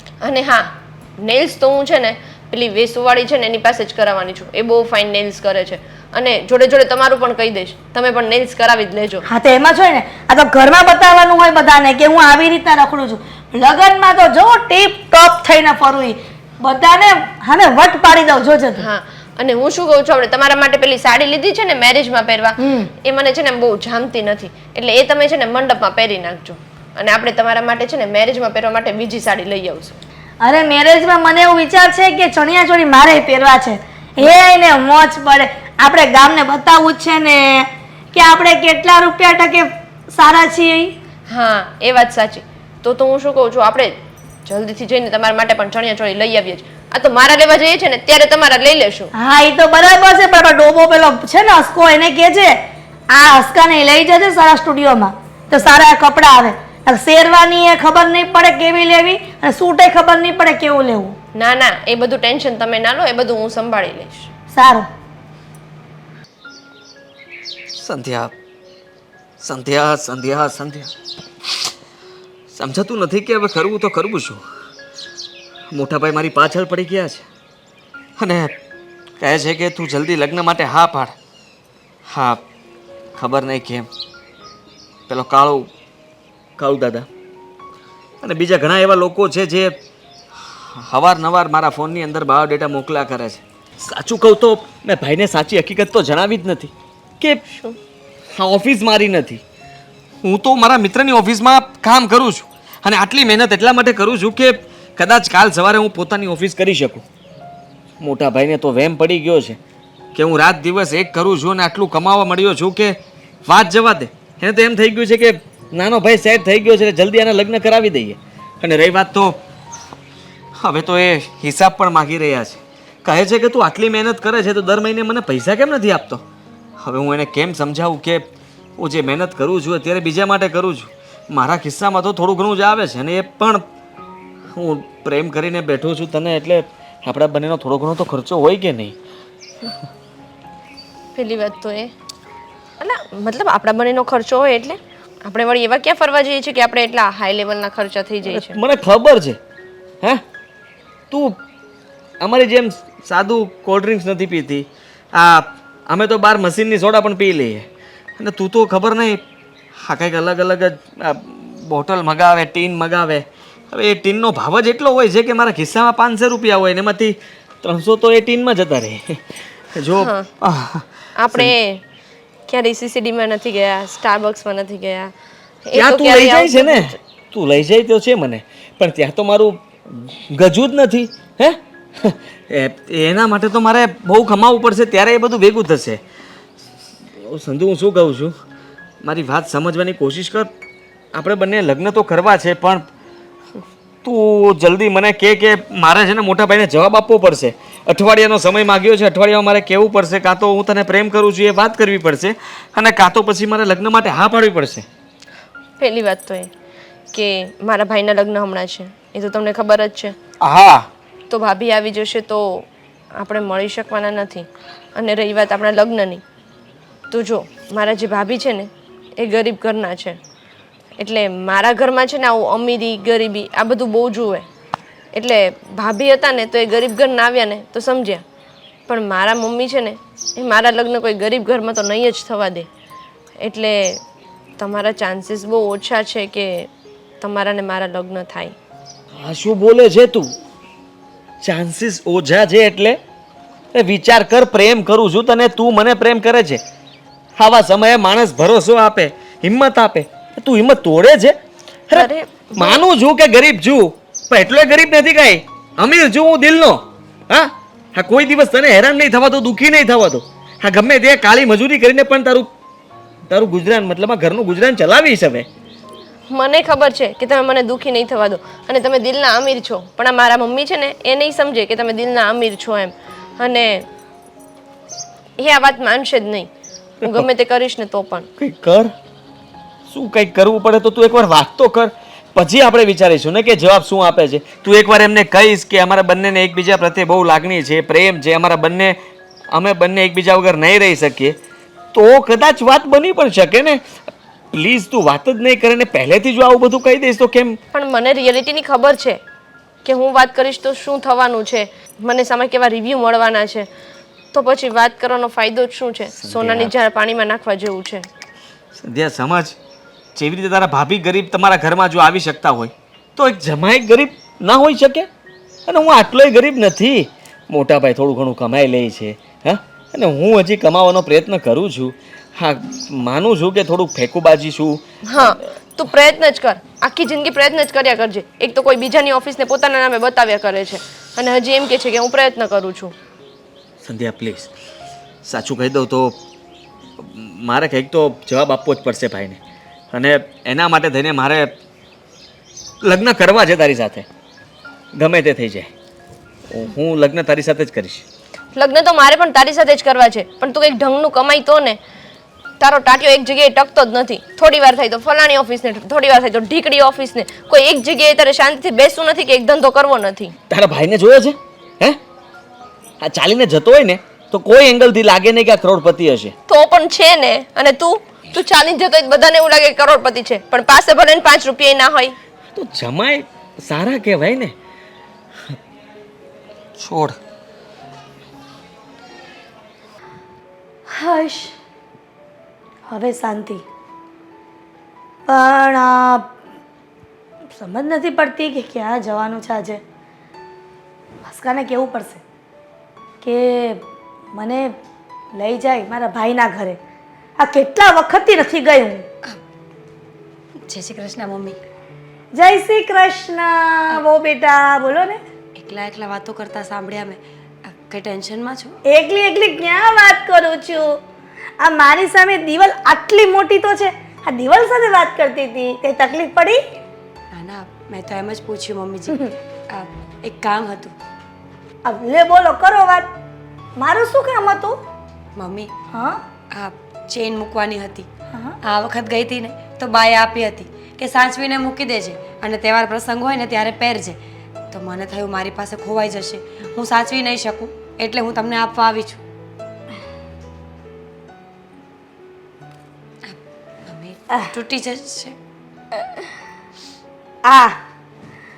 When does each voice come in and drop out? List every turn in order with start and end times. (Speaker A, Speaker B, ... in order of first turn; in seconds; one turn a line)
Speaker A: 0.2-9.2
Speaker B: 9.3-18.9
Speaker A: 18.8-30.0
Speaker B: 22.6-22.9
Speaker B: 30.4-41.0
Speaker A: 41.3-49.1
Speaker B: 49.2-61.2
Speaker A: 61.3-64.3
Speaker B: 64.5-64.9
Speaker C: 67.7-68.3
Speaker C: 69.4-70.9
Speaker C: 72.5-74.4
Speaker C: 75.7-77.3
Speaker C: 78.2-78.5
Speaker C: 79.2-81.2
Speaker C: 82.1-82.4
Speaker C: 83.2-83.9
Speaker C: 85.1-85.7
Speaker C: 86.6-87.1
Speaker C: 88.2-89.8
Speaker C: 90.6-97.4
Speaker A: 97.5-97.8
Speaker C: 98.3-99.4
Speaker C: 100.2-107.0
Speaker C: 108.0-109.6
Speaker C: 110.2-119.4
Speaker C: 120.6-126.2
Speaker C: 126.8-128.3
Speaker C: 128.8-133.6
Speaker C: 134.5-138.9
Speaker A: 141.2-141.9
Speaker A: 142.8-148.6
Speaker C: 148.3-149.4
Speaker C: 151.1-151.4
Speaker C: 152.2-157.7
Speaker C: 158.2-159.2
Speaker C: 159.8-171.5
Speaker A: 170.0-170.3
Speaker A: 171.2-171.8
Speaker A: 172.5-175.1
Speaker A: 175.7-177.0
Speaker C: 175.8-186.0
Speaker C: 187.2-188.3
Speaker C: 189.0-190.5
Speaker C: 191.1-192.9
Speaker C: 194.0-204.9
Speaker A: 205.8-206.5
Speaker A: 207.1-210.2
Speaker C: 210.4-210.9
Speaker A: 211.3-216.2
Speaker A: 217.1-220.2
Speaker A: 221.0-224.5
Speaker A: 225.1-228.2
Speaker A: 228.9-232.7
Speaker A: 233.4-234.0
Speaker A: 234.6-236.7
Speaker A: 237.2-238.6
Speaker C: 239.2-240.3
Speaker C: 241.4-243.0
Speaker C: 243.7-246.6
Speaker C: 247.4-251.4
Speaker C: 251.9-262.5
Speaker A: 251.9-252.8
Speaker C: 263.3-265.5
Speaker A: 266.3-273.9
Speaker A: 275.4-276.5
Speaker A: 277.0-278.3
Speaker C: 278.4-278.9
Speaker C: 279.9-289.0
Speaker C: 289.5-291.4
Speaker C: 291.9-293.8
Speaker C: 294.5-297.6
Speaker A: 297.7-299.2
Speaker A: 299.8-303.7
Speaker A: 304.3-308.1
Speaker C: 306.2-306.7
Speaker C: 308.8-309.6
Speaker C: 310.1-315.1
Speaker C: 315.7-325.3
Speaker A: 325.0-332.9
Speaker C: 333.8-334.5
Speaker C: 335.2-336.2
Speaker C: 337.0-339.4
Speaker C: 339.9-341.5
Speaker C: 342.8-344.1
Speaker C: 344.9-345.7
Speaker C: 346.5-348.1
Speaker A: 348.6-351.8
Speaker A: 352.6-360.4
Speaker C: 360.5-362.0
Speaker C: 363.0-366.3
Speaker A: 366.5-372.2
Speaker C: 372.5-374.5
Speaker C: 376.8-377.2
Speaker B: 380.9-381.6
Speaker B: 382.9-383.6
Speaker B: 385.3-386.3
Speaker B: 387.5-389.8
Speaker B: 391.2-392.2
Speaker B: 393.2-394.7
Speaker B: 395.4-396.8
Speaker B: 397.4-399.1
Speaker D: 400.6-401.6
Speaker B: 402.3-405.2
Speaker D: 405.6-408.8
Speaker B: 408.9-411.0
Speaker B: 411.6-416.6
Speaker D: 417.3-420.9
Speaker B: 421.9-423.1
Speaker B: 423.8-424.8
Speaker D: 425.4-425.7
Speaker B: 425.9-426.2
Speaker D: 426.5-428.1
Speaker B: 428.3-428.6
Speaker D: 428.6-434.2
Speaker D: 434.7-439.2
Speaker D: 443.2-445.4
Speaker B: 447.4-447.8